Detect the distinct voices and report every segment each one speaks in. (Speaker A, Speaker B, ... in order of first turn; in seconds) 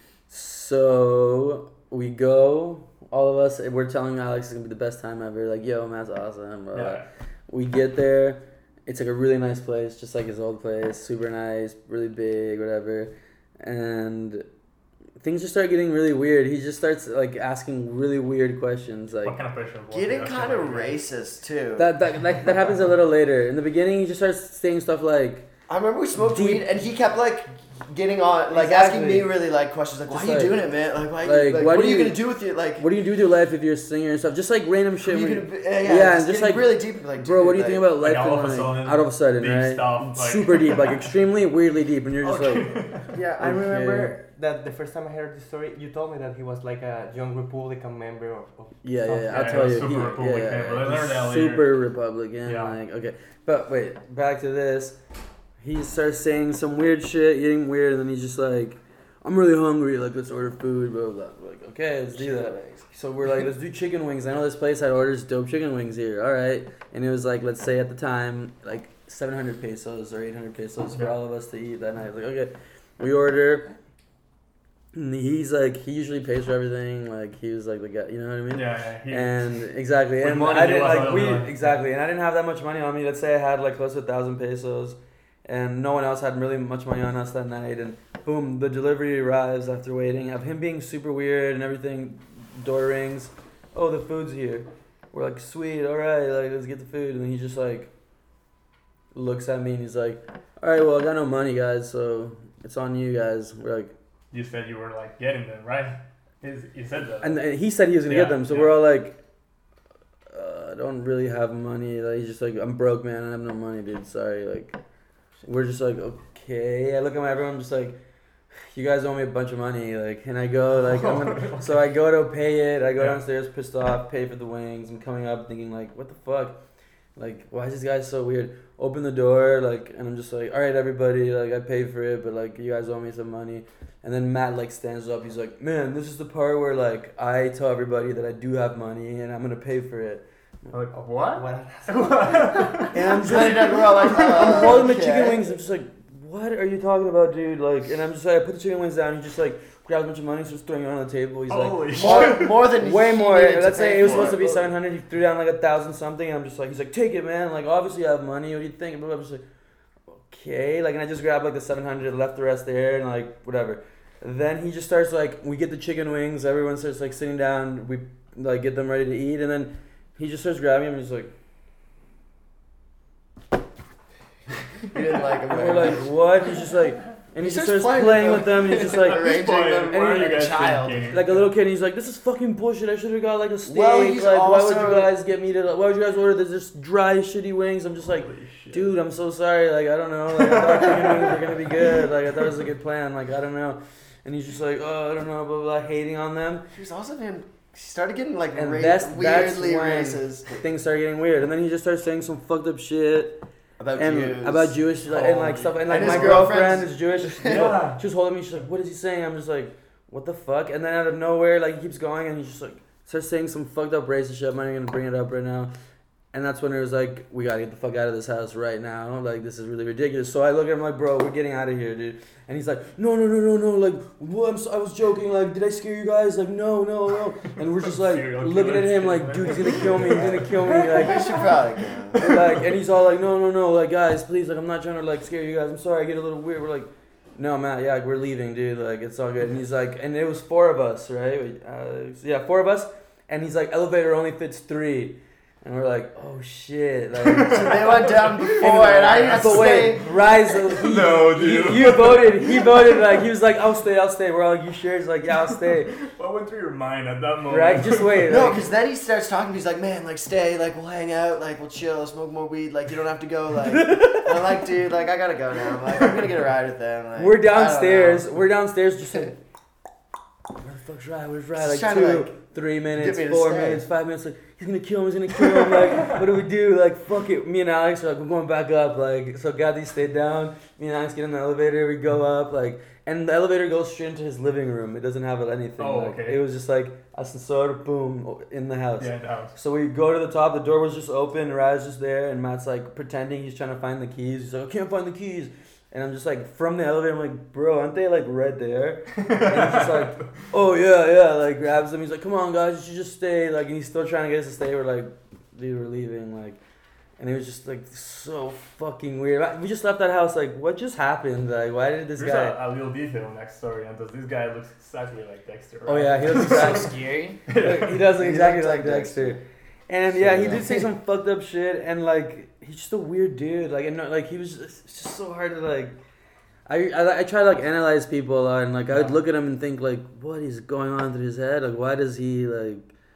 Speaker A: 0.3-14.4, 15.2-19.4, 21.8-25.5, 26.2-26.7, 28.5-29.3, 30.1-30.6, 31.2-32.2, 32.8-42.8, 43.4-44.2, 48.8-55.0, 55.6-73.7, 74.9-97.9, 99.1-103.9, 107.2-109.2, 110.3-114.8, 115.4-118.0, 118.7-126.6, 127.2-140.2, 142.9-159.4, 160.2-171.3, 175.5-179.2, 181.1-196.7, 198.5-203.4, 203.9-215.7, 216.3-231.4, 232.1-248.0, 248.6-255.9, 257.5-258.6, 267.1-269.4, 270.6-306.6, 307.2-312.6, 315.9-316.9, 317.5-326.0, 326.7-332.9
Speaker B: 6.7-7.1, 19.2-21.0, 38.0-41.1, 42.2-43.1, 49.3-51.8, 52.4-52.8, 78.5-79.6, 80.2-81.8, 104.3-107.4, 108.0-108.8, 120.7-121.8, 140.7-143.4, 151.5-152.6, 178.8-181.5, 188.1-188.9, 205.1-206.4, 207.4-208.0, 227.9-231.5, 232.2-232.5, 247.2-252.4, 255.9-258.4, 285.8-286.4, 289.0-289.5, 299.1-300.3, 312.2-316.9, 317.5-318.0
Speaker C: 19.9-21.9, 25.7-32.9, 35.0-37.8, 43.2-43.7, 62.1-62.9, 143.2-145.6, 151.9-154.7, 174.9-176.1, 177.4-180.3, 183.6-185.1, 196.7-200.6, 203.8-204.8, 205.8-207.8, 230.9-232.3, 247.4-250.2, 258.2-268.3, 271.6-272.4, 272.9-273.9, 318.2-319.4, 320.2-320.9
Speaker D: 43.1-50.0, 141.3-142.9
Speaker E: 179.9-181.2, 316.3-317.4, 320.2-320.6